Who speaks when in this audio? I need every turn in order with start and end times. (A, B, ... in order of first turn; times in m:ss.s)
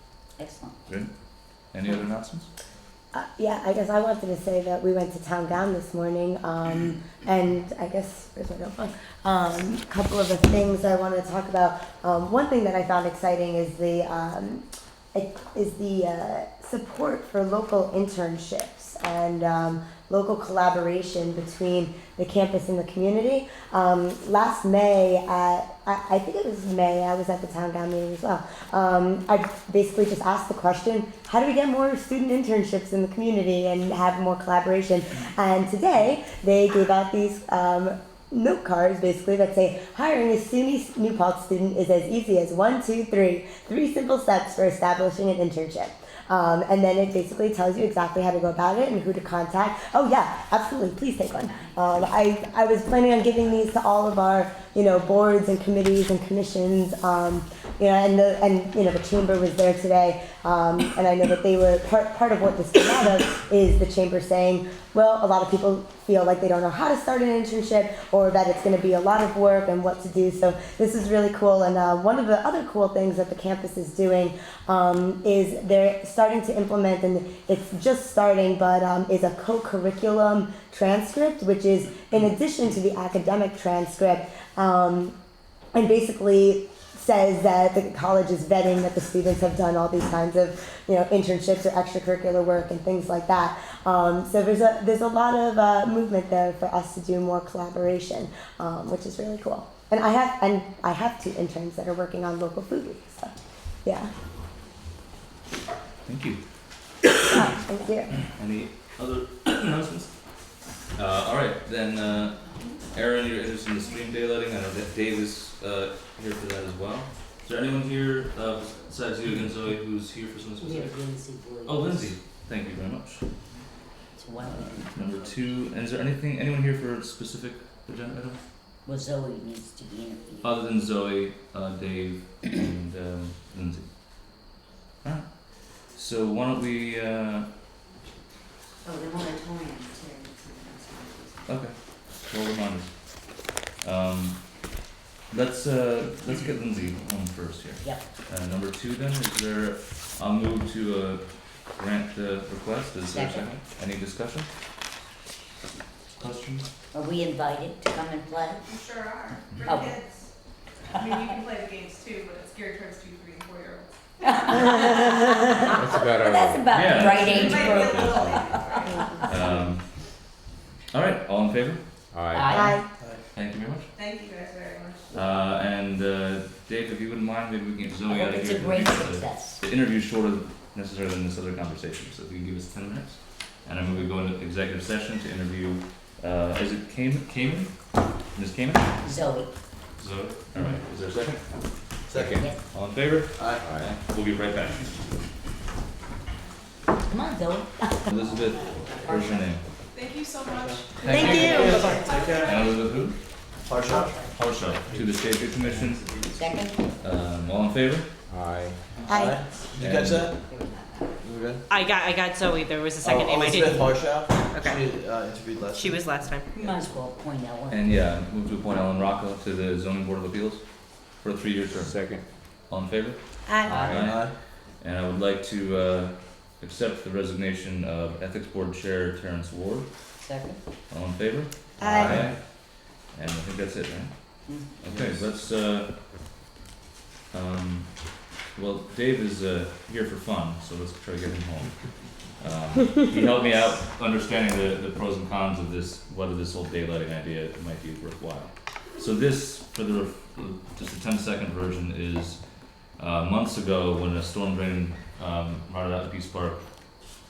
0:00.4-0:00.8 A
0:00.9-0:02.5 B
0:03.1-1:25.2 C
0:51.3-0:52.0 A
1:25.7-1:43.3 C
1:43.8-1:44.1 C
1:46.1-1:46.4 B
1:47.2-1:48.2 C
1:48.3-1:50.1 B
1:50.9-2:03.3 B
2:00.6-2:02.2 A
2:04.2-2:05.4 A
2:04.4-2:08.4 B
2:08.8-2:10.5 A
2:10.4-2:14.5 B
2:15.0-2:17.5 B
2:18.8-2:21.6 A
2:21.5-2:24.8 B
2:25.3-2:34.5 B
2:33.1-2:33.6 A
2:36.2-2:36.7 B
2:36.9-2:38.7 A
2:38.8-2:40.3 D
2:39.6-2:40.0 A
2:41.0-2:43.9 D
2:44.2-2:49.1 A
2:45.7-2:46.7 E
2:46.7-2:48.4 B
2:47.4-2:48.9 D
2:48.9-2:49.3 C
2:49.2-2:49.9 B
2:50.9-2:51.8 B
2:52.1-2:52.8 E
2:52.3-2:52.9 A
2:52.5-2:52.9 C
2:53.0-2:53.2 F
2:53.3-2:53.9 B
2:54.0-2:55.1 D
2:55.1-3:09.0 B
2:58.1-2:59.6 A
3:09.0-3:09.5 A
3:10.0-3:11.7 B
3:12.1-3:12.5 F
3:12.1-3:12.5 E
3:12.4-3:12.6 A
3:12.7-3:15.0 B
3:13.3-3:13.6 F
3:13.6-3:13.9 E
3:17.1-3:19.6 A
3:18.1-3:19.6 B
3:19.9-3:22.8 D
3:20.5-3:21.0 F
3:21.0-3:23.2 B
3:21.1-3:22.1 C
3:21.4-3:22.0 A
3:21.5-3:22.6 F
3:23.6-3:24.2 F
3:23.9-3:24.3 A
3:24.3-3:26.3 B
3:24.9-3:26.6 F
3:26.3-3:26.9 A
3:27.0-3:28.1 B
3:28.3-3:29.1 E
3:29.1-3:29.4 C
3:29.1-3:30.4 F
3:29.8-3:30.4 B
3:30.5-3:31.1 A
3:31.2-3:31.6 F
3:31.7-3:33.9 G
3:33.0-3:36.0 F
3:34.5-3:34.8 G
3:35.8-3:36.5 G
3:36.5-3:37.9 A
3:37.7-3:50.1 B
3:41.8-3:42.2 E
3:43.6-3:44.1 E
3:43.7-3:44.0 A
3:44.0-3:44.4 F
3:50.2-3:50.6 A
3:50.9-3:56.0 B
3:51.8-3:52.2 C
3:51.8-3:52.4 E
3:54.5-3:54.8 A
3:54.9-3:55.3 F
3:57.3-4:01.8 B
4:02.4-4:16.9 B